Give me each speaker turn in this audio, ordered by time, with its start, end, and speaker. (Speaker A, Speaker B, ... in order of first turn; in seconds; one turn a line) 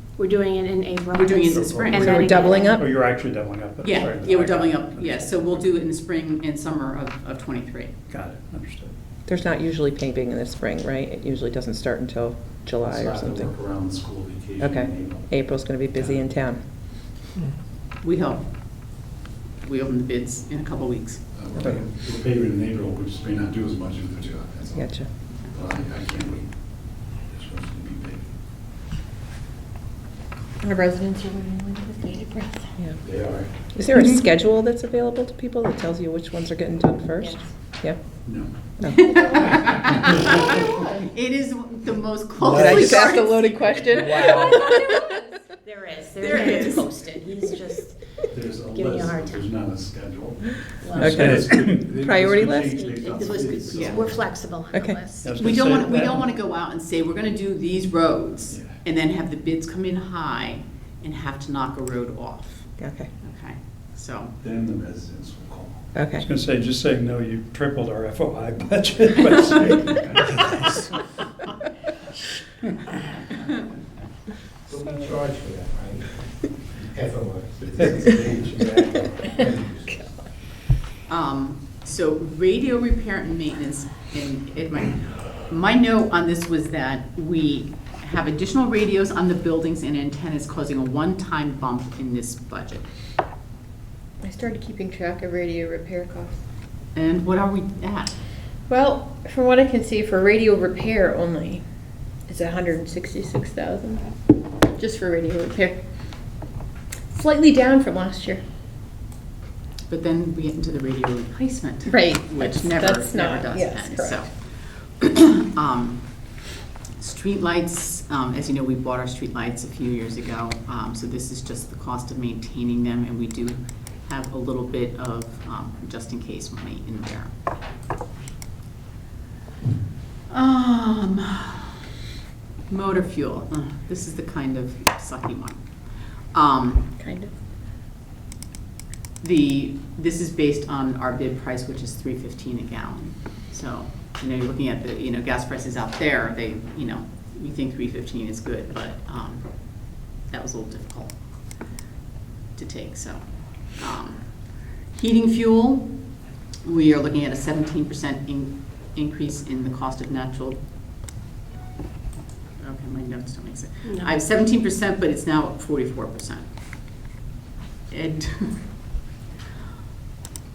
Speaker A: 0.2-2.9
Speaker B: 1.1-2.5
Speaker C: 1.5-5.6
Speaker D: 2.0-2.9
Speaker B: 3.8-7.9
Speaker C: 8.1-8.9
Speaker D: 9.3-13.5
Speaker E: 12.9-15.3
Speaker D: 14.6-16.6
Speaker E: 15.9-16.2
Speaker B: 18.0-18.5
Speaker B: 19.6-21.2
Speaker E: 21.4-28.3
Speaker C: 21.6-21.8
Speaker D: 24.8-25.1
Speaker F: 30.6-32.7
Speaker E: 33.0-33.5
Speaker D: 33.7-38.0
Speaker E: 38.2-38.5
Speaker D: 38.8-39.1
Speaker B: 39.0-44.8
Speaker F: 39.1-39.4
Speaker C: 42.4-43.1
Speaker D: 42.5-43.7
Speaker F: 43.0-43.9
Speaker C: 43.7-44.7
Speaker A: 45.6-48.0
Speaker B: 46.2-46.9
Speaker E: 48.3-54.4
Speaker A: 48.5-49.5
Speaker A: 50.8-51.5
Speaker C: 50.9-51.9
Speaker D: 51.0-53.5
Speaker A: 52.8-55.4
Speaker B: 53.7-54.0
Speaker D: 54.7-55.0
Speaker C: 55.2-56.3
Speaker B: 55.4-64.3
Speaker D: 62.8-63.1
Speaker E: 64.4-65.9
Speaker D: 65.9-66.3
Speaker C: 66.2-71.0
Speaker G: 74.7-78.6
Speaker E: 77.6-80.0
Speaker B: 81.1-92.9
Speaker F: 94.2-96.4
Speaker B: 96.9-98.2
Speaker F: 98.7-101.6
Speaker F: 102.3-104.1
Speaker F: 104.7-105.8
Speaker F: 107.1-108.4
Speaker B: 109.9-116.2
Speaker F: 111.8-114.3
Speaker B: 117.0-127.3
Speaker B: 130.3-131.7
Speaker B: 132.7-136.9
Speaker F: 137.0-137.3
Speaker B: 139.2-151.6
Speaker B: 152.6-160.6
Speaker B: 162.6-166.5
Speaker A: 163.8-164.1
Speaker B: 167.9-168.7